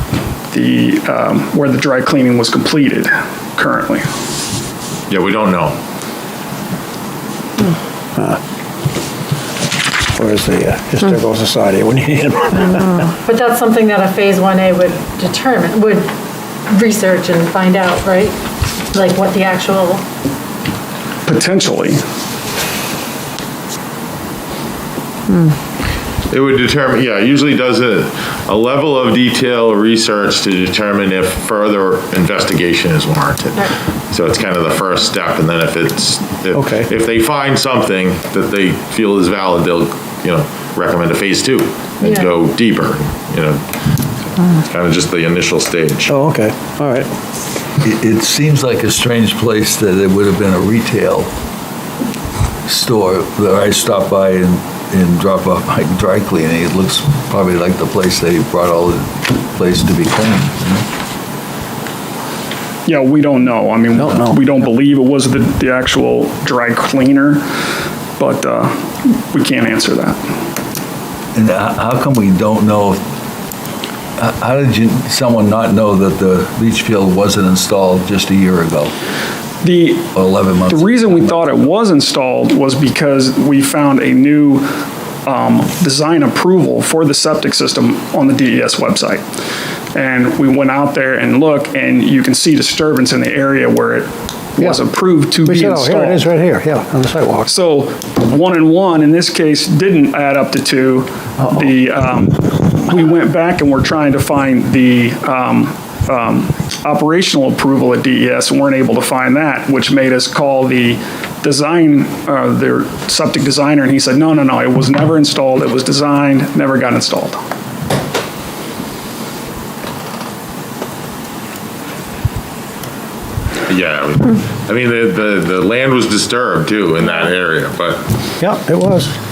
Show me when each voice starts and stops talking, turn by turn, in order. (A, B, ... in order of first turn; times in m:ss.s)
0:00.5-0:04.0 A
0:05.1-0:05.8 B
0:10.2-0:13.1 C
0:13.2-0:16.1 D
0:16.7-0:18.4 D
0:18.9-0:20.0 D
0:21.3-0:22.0 A
0:26.3-0:43.6 B
0:36.5-0:36.9 C
0:42.0-0:42.3 D
0:44.4-0:46.1 B
0:46.1-0:47.1 C
0:47.8-0:51.3 E
0:52.7-1:00.8 E
1:02.9-1:07.4 A
1:08.2-1:10.2 A
1:11.4-1:13.0 E
1:14.2-1:18.9 E
1:19.6-1:20.1 A
1:20.2-1:21.4 E
1:20.7-1:24.7 A
1:25.2-1:29.2 A
1:29.9-1:36.3 A
1:35.4-1:37.5 C
1:37.5-1:57.4 A
2:03.7-2:08.0 B
2:08.4-2:09.1 C